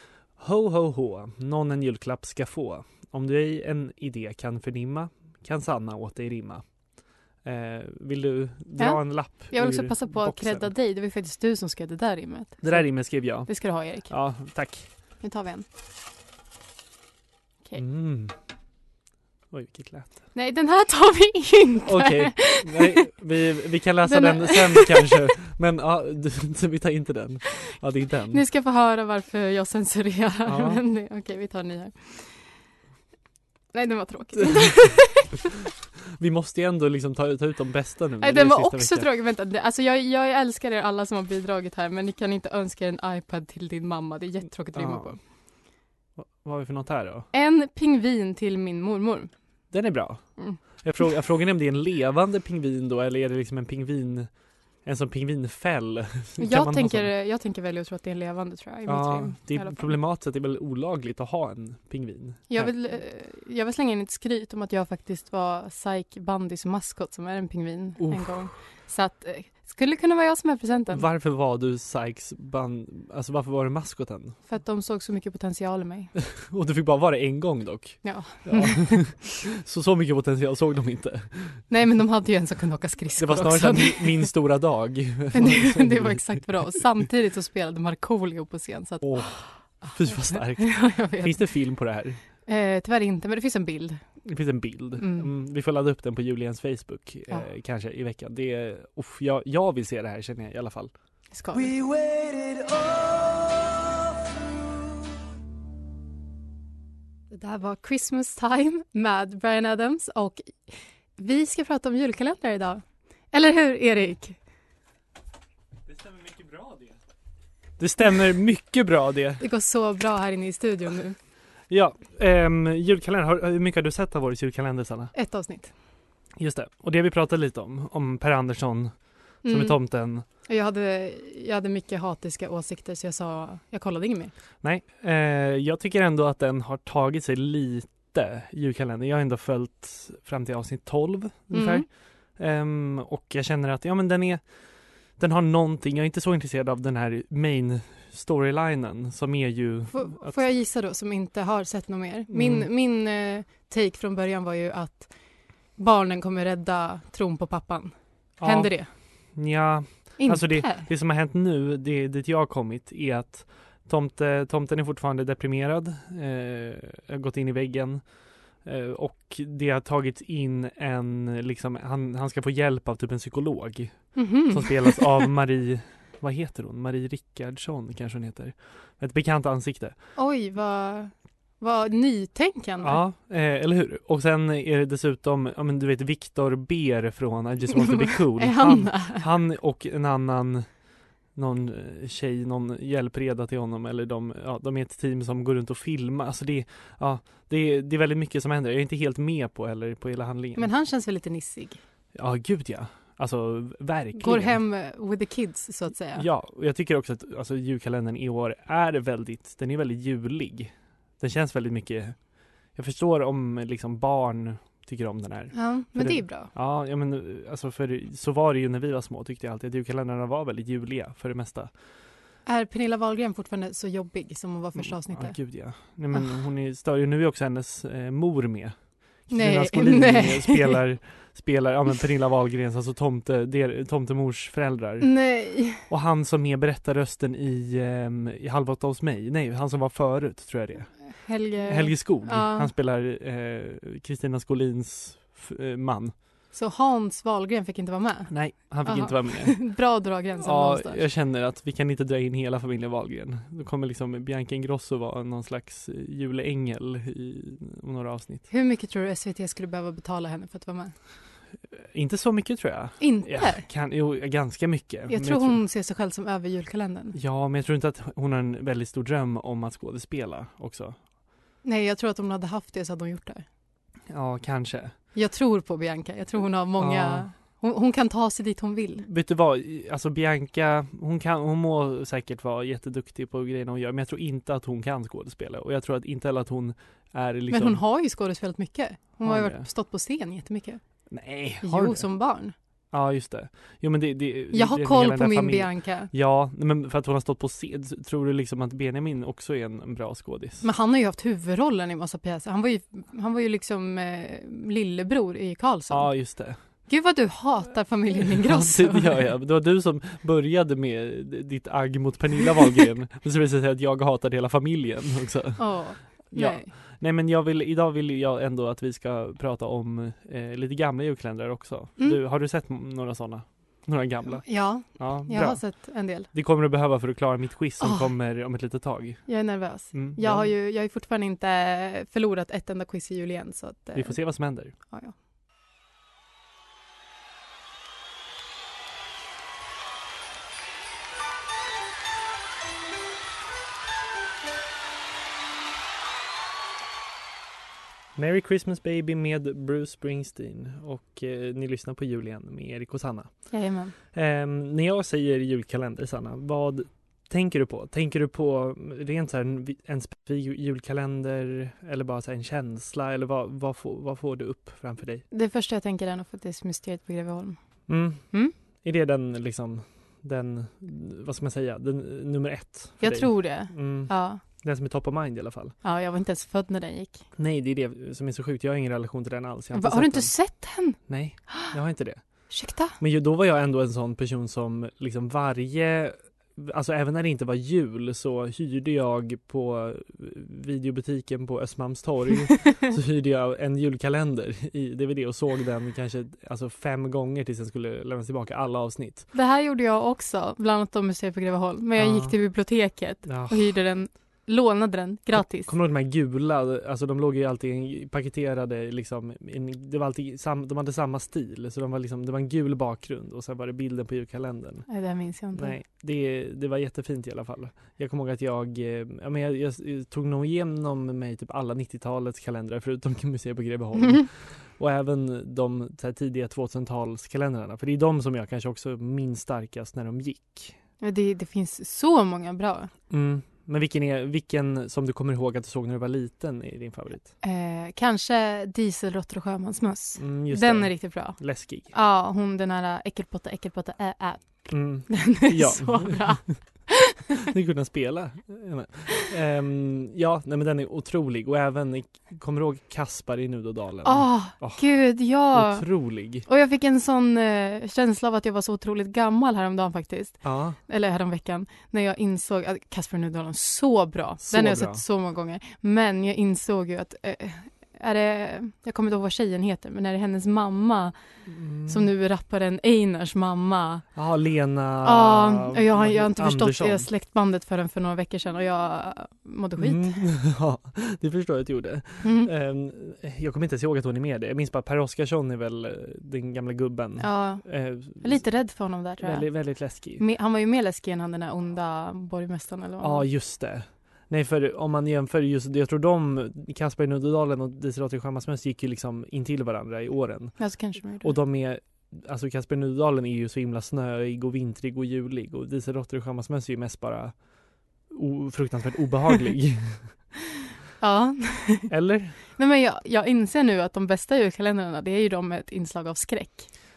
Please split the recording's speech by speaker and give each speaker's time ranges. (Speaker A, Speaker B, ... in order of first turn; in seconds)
Speaker A: 0.4-6.6, 7.4-10.7, 12.6-14.9, 17.8-18.3, 19.5-20.2, 21.9-28.4, 30.5-30.8, 36.1-39.1, 44.7-45.2, 46.2-47.3, 49.7-54.3, 54.8-57.1, 58.9-62.7, 68.0-68.5, 70.9-74.4, 76.3-81.6, 83.2-86.5, 89.0-92.2, 94.2-100.9, 115.9-117.0, 117.8-119.4, 121.7-125.1, 126.4-130.2, 134.6-144.5, 145.1-150.4, 152.3-152.7, 158.4-168.1, 168.6-180.0, 182.8-190.7, 191.3-200.7, 202.2-204.6, 206.2-212.2, 212.7-221.7, 224.8-235.2, 235.8-246.2, 248.3-249.8, 250.4-258.5, 261.7-265.6, 267.1-271.0, 274.1-274.9, 276.8-277.3, 279.1-287.8, 289.2-289.7, 291.1-292.1, 292.9-300.7, 305.9-306.6, 308.2-330.5, 333.9-334.8, 348.1-353.5, 354.1-365.2, 367.9-375.8, 377.4-399.3, 402.0-402.4, 403.3-403.8, 405.3-414.9, 415.5-430.8, 433.1-437.3, 440.2-441.9, 444.7-446.4, 447.5-456.5, 460.4-460.8, 464.4-465.0, 471.5-472.1, 474.1-477.1, 479.8-488.5, 489.2-490.2, 493.0-507.4, 508.1-510.2, 511.9-512.4
Speaker B: 8.8-14.1, 15.2-15.7, 20.3-23.0, 24.1-25.2, 28.3-32.5, 33.7-35.4, 38.2-45.2, 47.3-49.3, 56.4-60.0, 62.5-71.0, 74.5-76.1, 78.0-79.0, 81.7-84.3, 85.3-91.5, 92.5-94.0, 95.0-95.3, 101.3-101.7, 107.3-114.4, 119.4-121.2, 125.1-125.7, 129.4-129.8, 130.4-134.3, 141.5-141.8, 149.9-155.2, 155.8-158.9, 160.2-160.9, 174.2-175.3, 180.2-183.0, 187.7-189.3, 200.6-201.8, 204.2-206.3, 215.5-216.5, 222.5-225.4, 229.3-230.8, 235.0-235.9, 241.1-242.7, 246.5-251.0, 258.5-260.9, 263.0-263.6, 265.1-267.2, 271.6-273.4, 275.1-279.1, 287.5-290.8, 291.6-292.5, 294.5-296.1, 300.6-306.3, 306.9-309.2, 315.6-316.7, 324.4-326.3, 327.8-328.1, 329.3-335.1, 353.5-353.9, 365.3-367.6, 373.0-374.4, 375.8-377.2, 379.7-381.7, 382.5-383.0, 399.3-405.7, 414.9-415.8, 431.0-432.9, 437.4-447.3, 454.1-471.1, 471.9-474.1, 475.0-480.2, 482.2-482.5, 487.2-489.6, 490.2-493.3, 500.6-501.4, 511.0-511.9, 512.5-516.7
Speaker C: 101.5-104.9